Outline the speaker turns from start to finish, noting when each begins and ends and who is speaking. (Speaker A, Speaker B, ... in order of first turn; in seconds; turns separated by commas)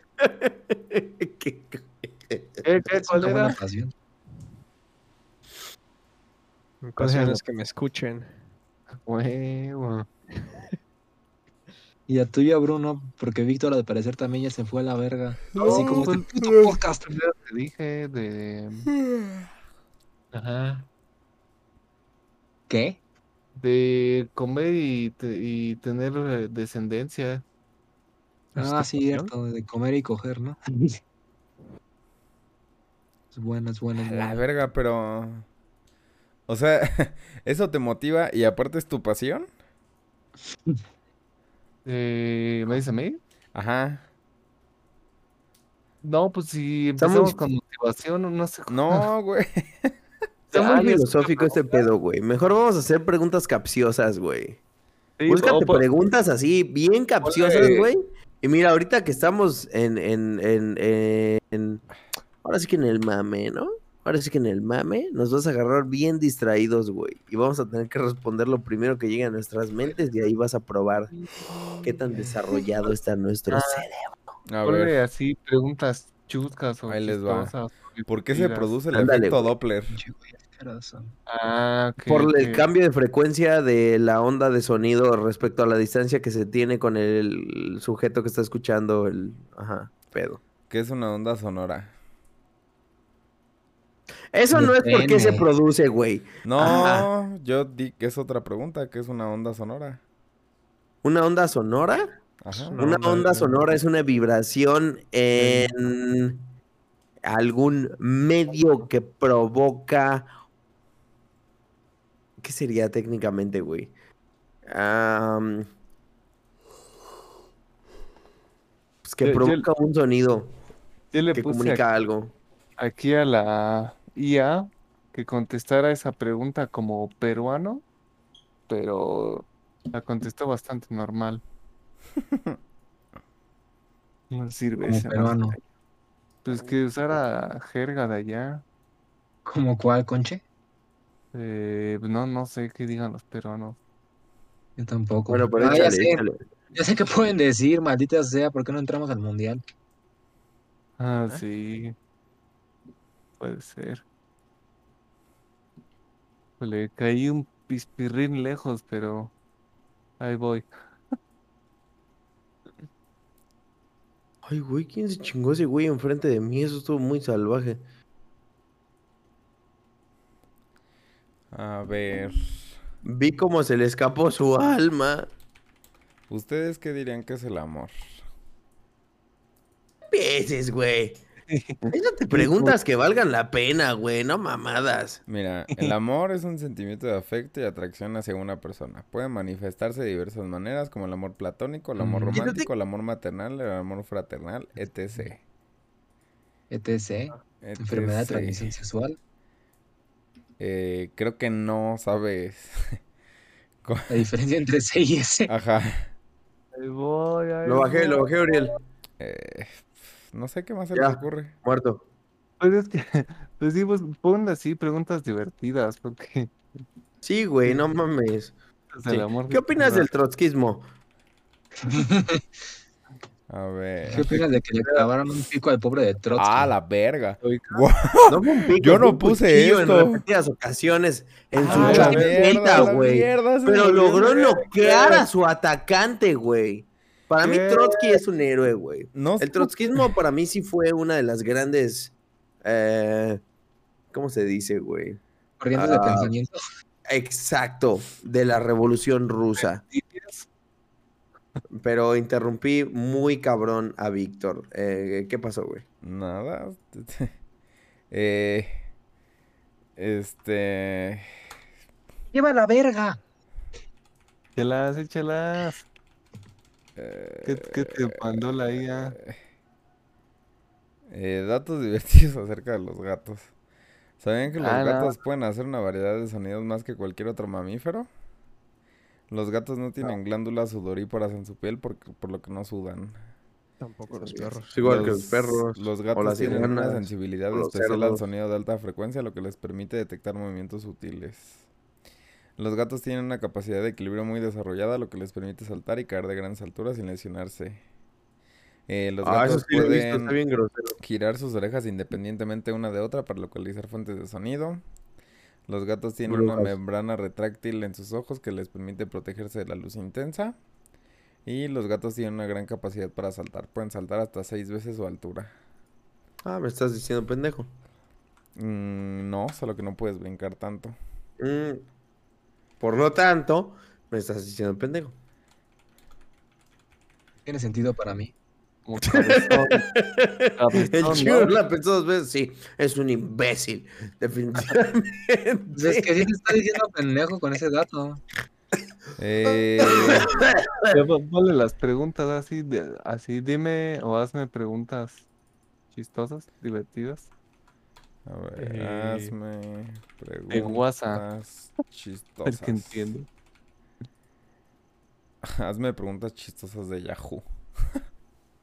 Speaker A: 0.2-2.6, Speaker B: 2.6-3.6, Speaker C: 2.9-3.9, Speaker D: 6.8-8.3, Speaker B: 7.0-7.4, Speaker B: 8.9-10.1, Speaker C: 12.1-17.1, Speaker E: 15.5-16.8, Speaker B: 15.6-16.3, Speaker B: 17.0-18.9, Speaker E: 19.1-19.4, Speaker B: 20.3-20.9, Speaker C: 22.7-23.0, Speaker B: 23.6-27.4, Speaker D: 28.5-29.3, Speaker C: 28.6-30.6, Speaker C: 33.3-34.4, Speaker E: 34.1-35.5, Speaker E: 36.5-39.5, Speaker B: 41.9-43.2, Speaker E: 43.5-44.0, Speaker B: 46.0-49.1, Speaker A: 47.0-47.4, Speaker E: 48.7-50.0, Speaker B: 50.5-51.9, Speaker A: 50.5-54.6, Speaker B: 55.2-55.9, Speaker A: 55.3-61.8, Speaker B: 57.2-57.9, Speaker A: 62.4-71.1, Speaker B: 71.2-71.9, Speaker A: 71.8-74.3, Speaker B: 73.5-73.9, Speaker E: 74.5-75.0, Speaker B: 74.6-78.8, Speaker E: 76.9-77.5, Speaker E: 78.1-80.0, Speaker A: 78.9-79.5, Speaker C: 79.9-81.1, Speaker B: 81.3-82.7, Speaker A: 82.1-90.4, Speaker E: 90.7-91.9, Speaker A: 94.3-97.1, Speaker C: 94.5-95.5, Speaker E: 96.5-100.0, Speaker A: 101.0-102.2, Speaker E: 102.4-102.8, Speaker D: 102.7-103.5, Speaker A: 102.7-106.5, Speaker B: 105.4-105.7, Speaker A: 107.3-110.3, Speaker A: 112.4-113.9, Speaker A: 114.7-115.7, Speaker A: 119.0-120.5, Speaker B: 119.2-119.7, Speaker B: 121.1-121.8, Speaker A: 121.3-122.3, Speaker B: 122.8-127.8, Speaker B: 128.7-131.4, Speaker B: 134.3-135.6, Speaker C: 134.8-135.6, Speaker B: 136.4-138.6, Speaker C: 139.4-140.4, Speaker B: 141.3-143.8, Speaker C: 144.8-149.6, Speaker A: 145.3-146.4, Speaker B: 151.0-151.9, Speaker B: 153.4-154.0, Speaker B: 156.6-159.3, Speaker B: 160.2-160.7, Speaker A: 164.4-167.8, Speaker E: 171.5-172.7, Speaker A: 173.0-175.3, Speaker E: 176.3-178.2, Speaker A: 180.1-181.2, Speaker B: 181.5-182.8, Speaker A: 181.9-185.2, Speaker E: 185.3-195.4, Speaker C: 192.0-192.4, Speaker A: 192.3-192.7, Speaker C: 196.7-199.2, Speaker E: 197.6-198.8, Speaker E: 200.6-203.0, Speaker E: 203.8-204.3, Speaker C: 204.1-205.5, Speaker E: 205.5-206.1, Speaker B: 206.7-208.6, Speaker A: 207.7-208.8, Speaker E: 209.2-211.6, Speaker A: 210.9-212.0, Speaker B: 212.6-216.5, Speaker A: 217.2-218.5, Speaker B: 218.9-220.1, Speaker A: 219.1-220.8, Speaker C: 221.9-222.4, Speaker E: 223.5-224.4, Speaker C: 224.1-226.7, Speaker E: 226.3-230.2, Speaker B: 227.4-227.9, Speaker A: 228.3-243.4, Speaker B: 231.6-232.9, Speaker E: 231.7-234.3, Speaker B: 233.8-235.3, Speaker B: 237.4-238.2, Speaker E: 239.1-239.7, Speaker A: 244.1-245.2, Speaker C: 245.6-246.6, Speaker A: 245.8-246.3, Speaker A: 247.1-249.8, Speaker B: 249.6-250.5, Speaker A: 251.7-255.8, Speaker E: 256.0-257.3, Speaker E: 258.1-258.8, Speaker E: 260.0-261.3, Speaker C: 262.3-263.2, Speaker B: 264.6-265.9, Speaker E: 267.0-269.4, Speaker B: 267.4-269.2, Speaker E: 271.1-273.5, Speaker E: 274.2-278.1, Speaker B: 274.6-275.2, Speaker E: 279.3-283.2, Speaker D: 283.8-285.1, Speaker B: 284.1-285.2, Speaker A: 284.7-288.2, Speaker E: 284.9-291.6, Speaker B: 286.4-286.7, Speaker E: 292.6-297.8, Speaker E: 298.9-300.4, Speaker A: 299.2-301.0, Speaker E: 301.0-304.8, Speaker E: 305.7-310.6, Speaker A: 306.3-306.8, Speaker E: 311.5-315.5, Speaker A: 316.4-317.7, Speaker E: 318.6-321.0, Speaker A: 321.4-321.9, Speaker A: 322.8-325.1, Speaker C: 327.4-328.3, Speaker B: 328.9-329.9, Speaker A: 329.0-336.3, Speaker B: 330.6-331.6, Speaker C: 335.7-338.2, Speaker E: 339.2-340.3, Speaker A: 339.8-341.0, Speaker B: 340.9-345.3, Speaker B: 345.9-347.3, Speaker E: 348.3-353.1, Speaker B: 348.6-349.4, Speaker B: 350.5-351.2, Speaker B: 352.5-353.3, Speaker E: 355.4-357.4